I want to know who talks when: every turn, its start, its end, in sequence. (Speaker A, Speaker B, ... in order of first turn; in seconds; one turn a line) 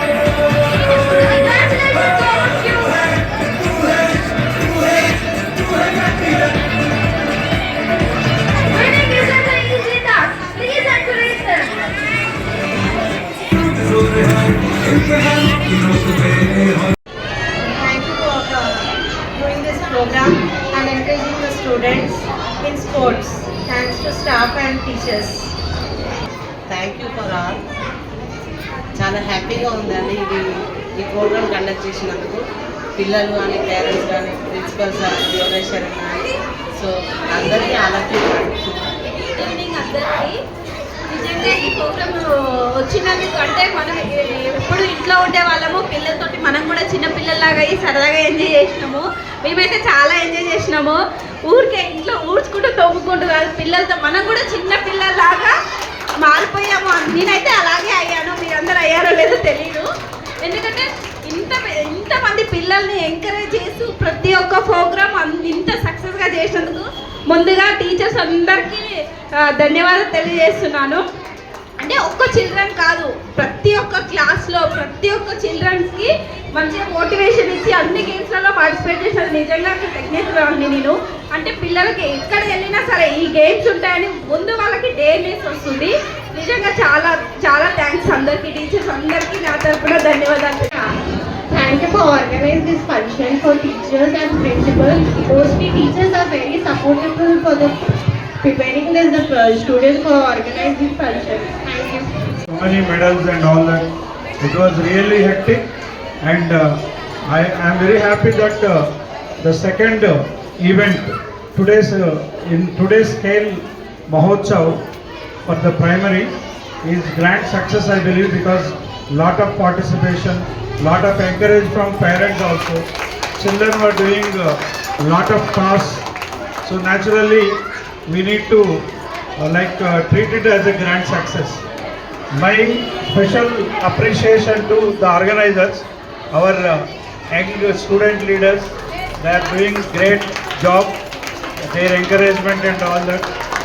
Speaker A: 1.1-3.1
Speaker A: 8.7-11.9
Speaker B: 17.8-18.8
Speaker B: 19.4-22.1
Speaker B: 22.6-25.3
Speaker C: 26.7-27.6
Speaker C: 28.9-32.4
Speaker C: 33.0-39.0
Speaker A: 39.3-40.4
Speaker A: 41.1-55.5
Speaker A: 56.2-59.9
Speaker A: 60.4-71.0
Speaker A: 71.8-90.7
Speaker D: 91.5-97.8
Speaker D: 98.4-102.1
Speaker E: 102.5-105.7
Speaker E: 106.2-114.8
Speaker E: 115.5-126.1
Speaker E: 126.6-128.9
Speaker E: 129.4-131.6
Speaker E: 132.3-141.0
Speaker E: 141.6-143.3